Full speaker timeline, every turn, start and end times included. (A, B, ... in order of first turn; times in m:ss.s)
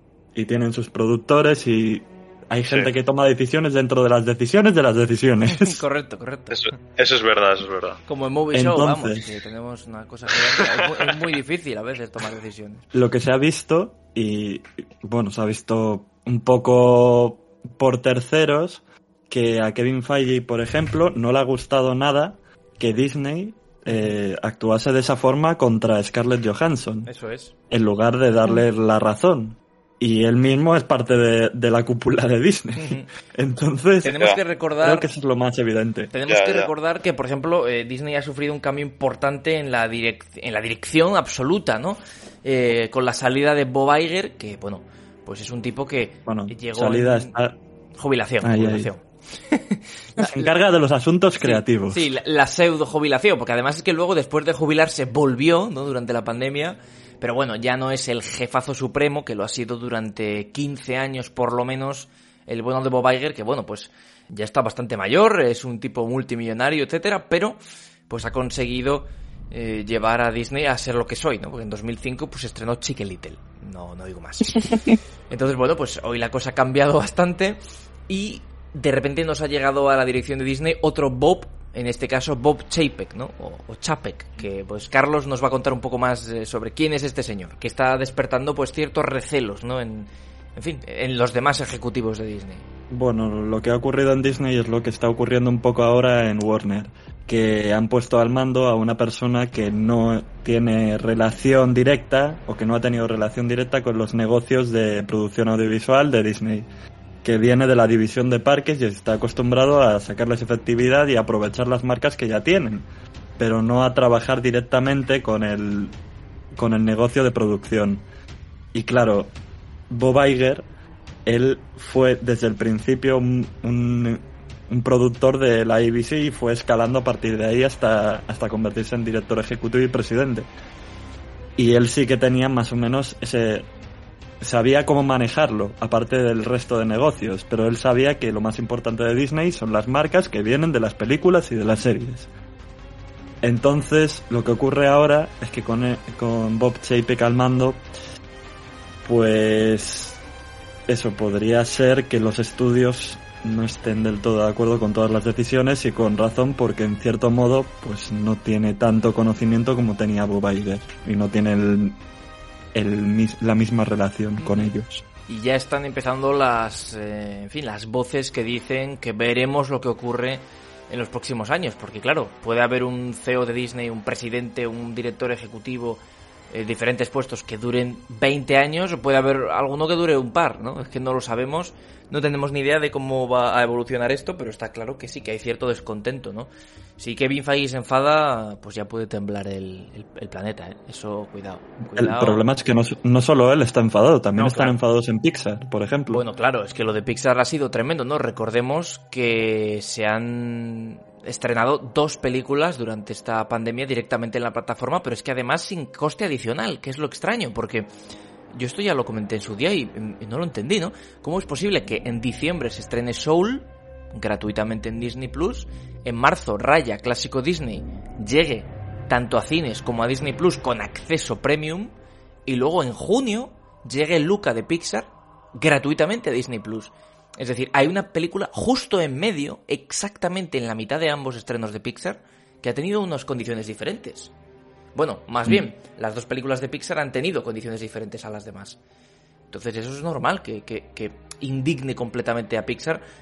0:00.4-0:05.8 A
0:05.5-0:06.7 B
0:06.5-0:08.0 C
0:08.1-0:12.8 B
0:08.5-0:09.3 A
0:10.6-0:10.9 C
0:12.9-0:27.1 A
0:27.0-0:27.5 B
0:27.7-0:34.3 A
0:32.8-0:33.1 B
0:34.0-0:35.0 B
0:34.8-0:36.1 A
0:36.1-0:47.4 B
0:36.3-0:36.7 C
0:46.3-0:47.6 A
0:48.0-0:50.5 B
0:48.4-0:48.9 A
0:50.2-0:52.1 A
0:51.4-1:07.6 B
1:08.1-1:32.7 B
1:32.9-1:46.7 A
1:47.2-1:52.9 A
1:53.4-1:55.9 A
1:56.6-1:58.0 A
1:58.7-1:59.3 A
1:59.9-2:00.7 A
2:01.3-2:10.5 A
2:11.6-2:13.7 A
2:14.4-2:22.3 A
2:23.4-2:27.8 A
2:29.0-2:30.2 A
2:30.9-2:42.0 A
2:42.7-2:45.0 A
2:44.4-2:44.7 B
2:45.3-3:12.4 B
3:11.8-3:16.2 A
3:14.4-3:14.8 B
3:16.1-3:27.9 B
3:28.5-3:41.9 B
3:42.5-3:54.3 B
3:55.0-3:58.8 B
3:59.5-4:03.0 B